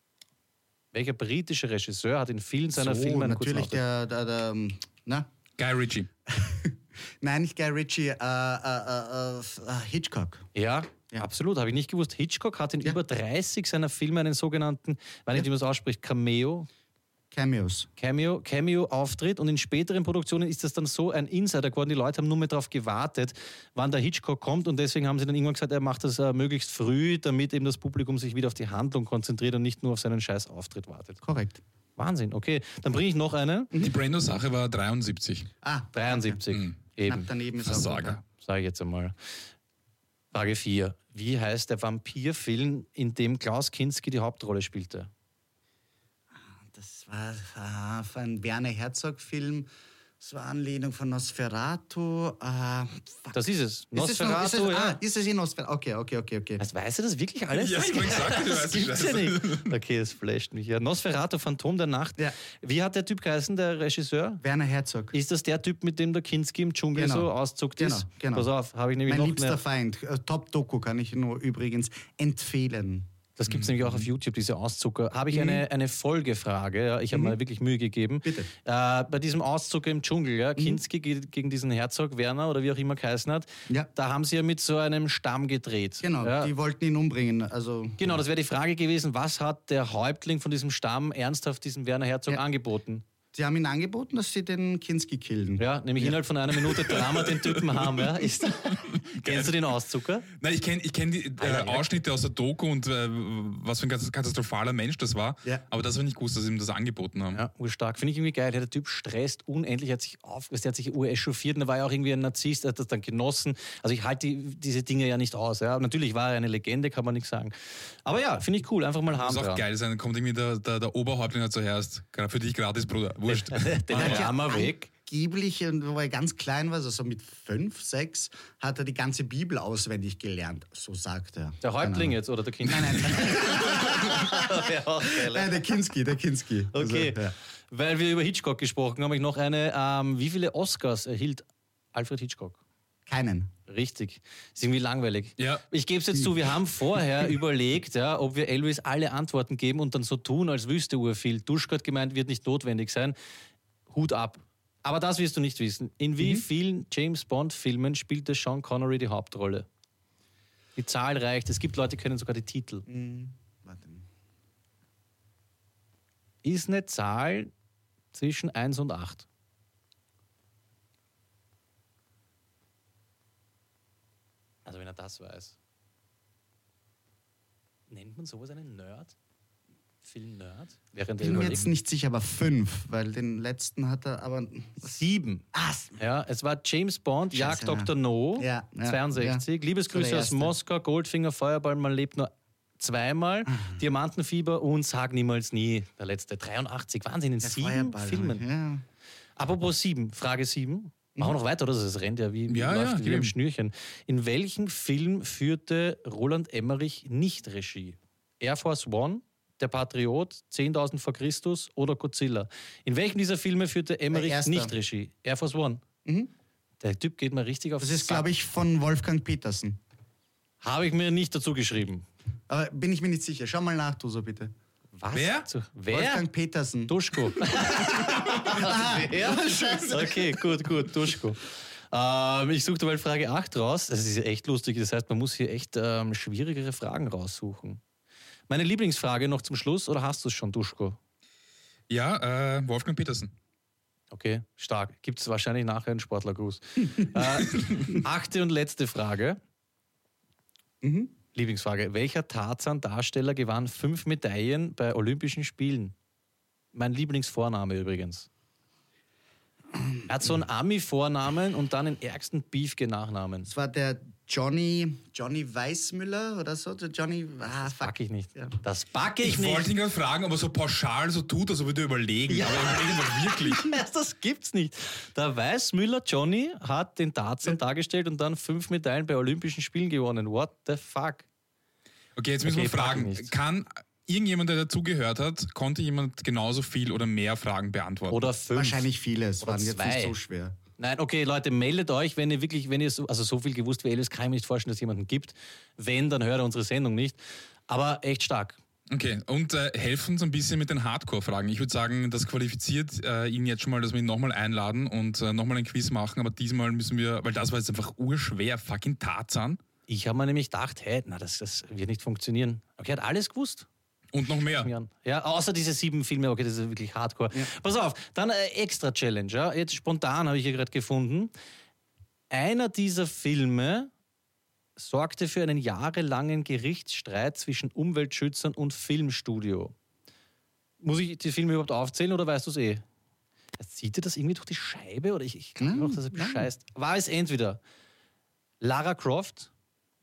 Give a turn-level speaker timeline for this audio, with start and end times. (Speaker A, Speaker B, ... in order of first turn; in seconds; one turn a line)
Speaker A: 0.9-3.8
Speaker B: 2.7-5.3
Speaker C: 5.6-6.1
Speaker B: 6.3-10.5
Speaker A: 10.5-16.7
Speaker B: 17.3-17.9
Speaker A: 18.0-31.2
Speaker B: 31.2-31.6
Speaker A: 32.0-33.7
Speaker C: 33.8-35.5
Speaker B: 35.6-36.4
Speaker A: 35.9-37.3
Speaker B: 37.0-38.2
Speaker C: 37.6-38.2
Speaker A: 38.2-39.1
Speaker A: 40.3-45.1
Speaker B: 46.4-49.7
Speaker B: 50.2-53.4
Speaker A: 53.3-55.0
Speaker B: 53.9-56.6
Speaker A: 56.6-64.4
Speaker C: 57.5-59.7
Speaker B: 64.4-65.1
Speaker A: 65.1-69.6
Speaker B: 66.9-68.5
Speaker B: 69.0-73.1
Speaker A: 73.4-86.5
Speaker B: 75.3-75.6
Speaker B: 78.2-78.5
Speaker B: 86.0-88.2
Speaker A: 88.0-93.0
Speaker B: 93.3-96.2
Speaker A: 95.6-100.3
Speaker C: 97.3-99.7
Speaker C: 100.3-107.4
Speaker A: 101.4-101.8
Speaker A: 107.3-117.5
Speaker A: 118.0-119.6
Speaker C: 119.1-124.2
Speaker A: 123.3-124.9
Speaker B: 123.9-137.3
Speaker A: 131.6-135.7
Speaker A: 136.7-142.6
Speaker B: 143.1-143.5
Speaker A: 143.7-153.1
Speaker C: 145.4-145.6
Speaker A: 153.9-159.7
Speaker A: 160.8-162.8
Speaker B: 162.9-164.1
Speaker A: 166.4-167.5
Speaker A: 168.1-169.2
Speaker A: 174.7-175.6
Speaker A: 177.9-179.1
Speaker A: 180.0-181.7
Speaker B: 181.2-185.0
Speaker A: 184.8-185.4
Speaker B: 185.5-186.0
Speaker A: 185.9-198.4
Speaker B: 187.3-190.5
Speaker B: 193.5-193.8
Speaker B: 197.4-198.8
Speaker A: 199.4-215.8
Speaker C: 202.5-203.3
Speaker B: 214.1-214.7
Speaker B: 216.0-216.3
Speaker A: 216.8-218.2
Speaker B: 217.8-219.8
Speaker A: 220.6-222.1
Speaker B: 222.5-224.5
Speaker A: 225.0-226.3
Speaker C: 225.1-225.5
Speaker B: 225.9-230.3
Speaker A: 226.9-237.8
Speaker A: 238.5-241.0
Speaker C: 241.9-243.3
Speaker A: 244.1-249.4
Speaker B: 250.8-251.1
Speaker A: 251.3-255.9
Speaker A: 256.7-258.3
Speaker A: 260.1-263.5
Speaker B: 263.4-268.6
Speaker A: 267.5-269.7
Speaker C: 269.2-273.7
Speaker A: 272.3-281.2
Speaker C: 282.1-288.2
Speaker A: 282.4-283.3
Speaker A: 288.1-288.9
Speaker B: 288.5-290.6
Speaker A: 289.4-290.2
Speaker A: 290.8-298.6
Speaker C: 298.9-309.6
Speaker A: 309.9-313.7
Speaker C: 314.1-314.7
Speaker A: 314.5-321.3
Speaker A: 322.3-323.9
Speaker A: 324.8-329.7
Speaker A: 330.8-332.8
Speaker A: 333.6-337.6
Speaker B: 335.6-336.5
Speaker A: 338.6-339.5